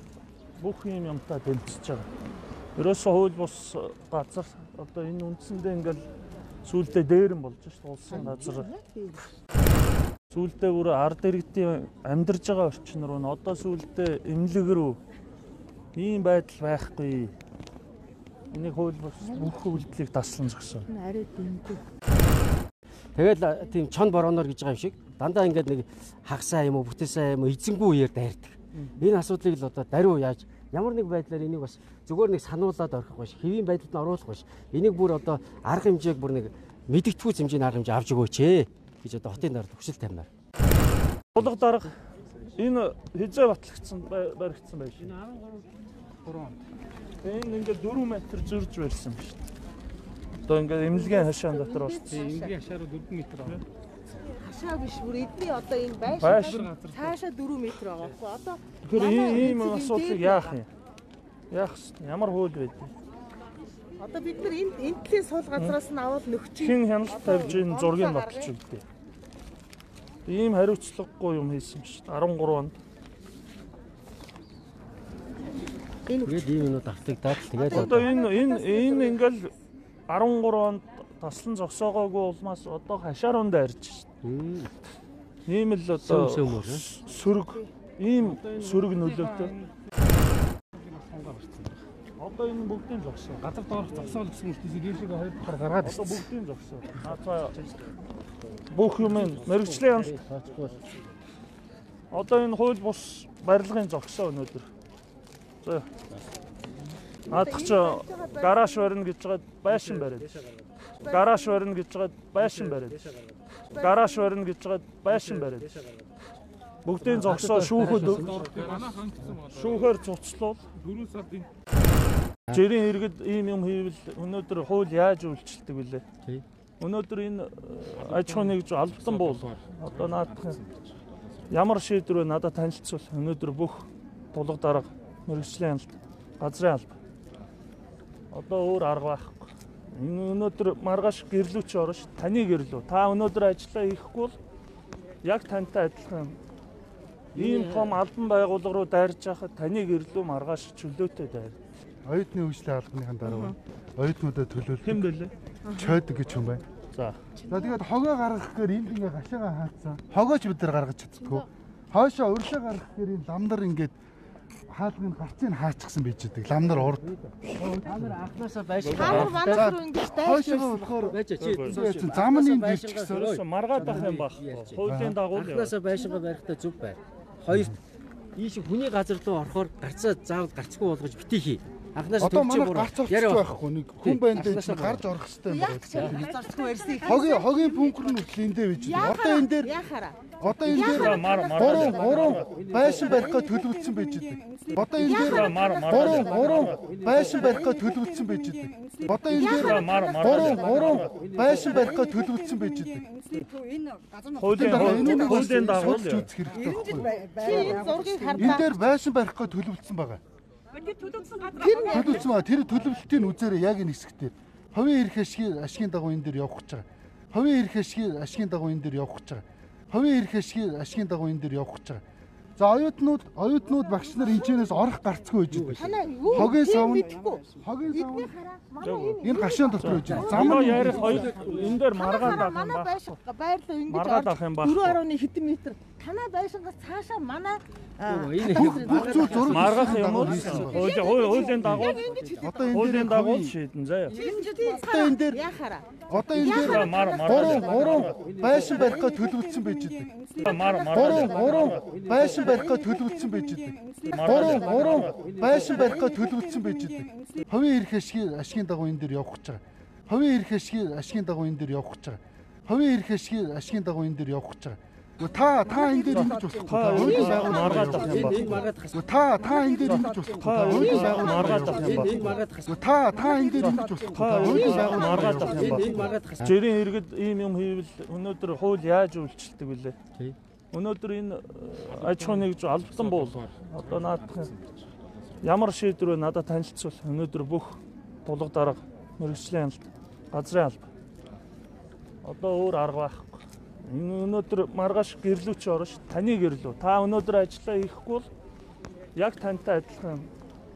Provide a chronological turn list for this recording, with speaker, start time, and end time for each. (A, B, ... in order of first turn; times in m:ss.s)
0:00.6-0:02.1 A
0:02.8-0:06.0 A
0:06.6-0:08.7 A
0:08.1-0:09.3 B
0:10.3-0:15.0 A
0:16.0-0:17.3 A
0:18.5-0:20.9 A
0:19.2-0:19.7 B
0:20.9-0:21.8 B
0:23.2-0:40.3 C
0:41.3-0:42.0 A
0:42.5-0:45.1 A
0:45.0-0:45.7 C
0:46.2-0:46.6 C
0:47.2-0:49.4 A
0:50.4-0:52.2 A
0:50.9-0:52.6 B
0:52.1-0:53.5 C
0:54.4-1:00.6 B
0:56.2-0:56.8 A
0:58.8-1:00.7 A
1:01.5-1:02.9 A
1:04.0-1:08.5 B
1:06.6-1:08.8 A
1:10.3-1:12.7 A
1:16.1-1:16.7 B
1:16.2-1:18.1 C
1:17.3-1:19.5 B
1:17.5-1:19.5 A
1:20.1-1:24.1 A
1:24.2-1:24.7 C
1:25.5-1:29.6 A
1:26.0-1:26.8 C
1:31.1-1:31.7 C
1:32.2-1:33.5 A
1:33.5-1:35.5 D
1:33.6-1:34.5 C
1:35.4-1:36.1 C
1:35.8-1:37.6 A
1:38.7-1:40.2 A
1:39.1-1:41.1 C
1:42.1-1:44.7 A
1:45.6-1:45.9 A
1:47.3-1:48.8 B
1:47.3-1:50.3 A
1:51.0-1:53.0 A
1:53.7-1:55.9 A
1:56.8-2:01.1 A
1:57.0-1:58.6 C
1:58.5-1:59.5 D
2:01.1-2:01.4 D
2:02.5-2:06.0 A
2:06.8-2:10.6 A
2:11.5-2:17.0 A
2:18.3-2:24.4 A
2:25.2-2:26.4 A
2:27.3-2:31.6 A
2:27.4-2:28.0 C
2:32.0-2:35.0 E
2:33.2-2:33.5 B
2:34.8-2:35.3 A
2:35.7-2:36.0 B
2:35.7-2:36.6 E
2:37.4-2:37.8 B
2:37.5-2:44.0 E
2:44.7-2:47.1 E
2:46.8-2:49.7 C
2:48.8-2:49.4 A
2:48.9-2:51.1 B
2:49.4-2:53.4 E
2:51.0-2:57.8 C
2:51.4-2:52.0 A
2:53.0-2:55.8 A
2:54.8-2:55.2 E
2:58.3-3:05.1 C
3:02.2-3:06.4 E
3:05.5-3:07.6 B
3:05.9-3:06.3 C
3:07.0-3:09.8 E
3:08.8-3:10.2 B
3:10.4-3:11.3 E
3:10.7-3:12.6 A
3:12.6-3:15.5 E
3:15.0-3:17.0 A
3:16.8-3:19.9 E
3:19.3-3:21.2 A
3:20.5-3:23.1 E
3:24.3-3:26.3 A
3:24.5-3:27.6 E
3:27.2-3:28.7 B
3:28.4-3:30.2 E
3:30.9-3:32.3 B
3:31.8-3:42.0 E
3:42.6-3:48.3 E
3:45.5-3:45.9 C
3:45.8-3:59.6 B
3:48.8-3:49.2 A
3:49.2-3:51.3 E
3:49.8-3:53.2 A
3:50.1-3:51.8 C
3:53.9-3:55.0 A
3:58.1-4:00.7 C
3:58.5-4:00.9 E
3:59.4-4:02.0 A
4:00.5-4:02.8 B
4:01.6-4:03.6 E
4:02.7-4:04.2 A
4:04.1-4:06.9 B
4:04.8-4:05.4 E
4:06.1-4:07.0 E
4:06.4-4:08.2 A
4:08.3-4:10.1 E
4:10.4-4:12.0 A
4:11.9-4:14.6 E
4:14.1-4:15.3 A
4:15.2-4:32.1 E
4:26.1-4:28.6 A
4:27.5-4:29.0 C
4:29.8-4:32.4 A
4:31.7-4:32.7 C
4:32.7-4:36.0 E
4:33.6-4:40.0 A
4:35.0-4:36.6 C
4:40.7-4:44.6 A
4:45.4-4:50.9 A
4:52.2-4:58.3 A
4:59.2-5:00.3 A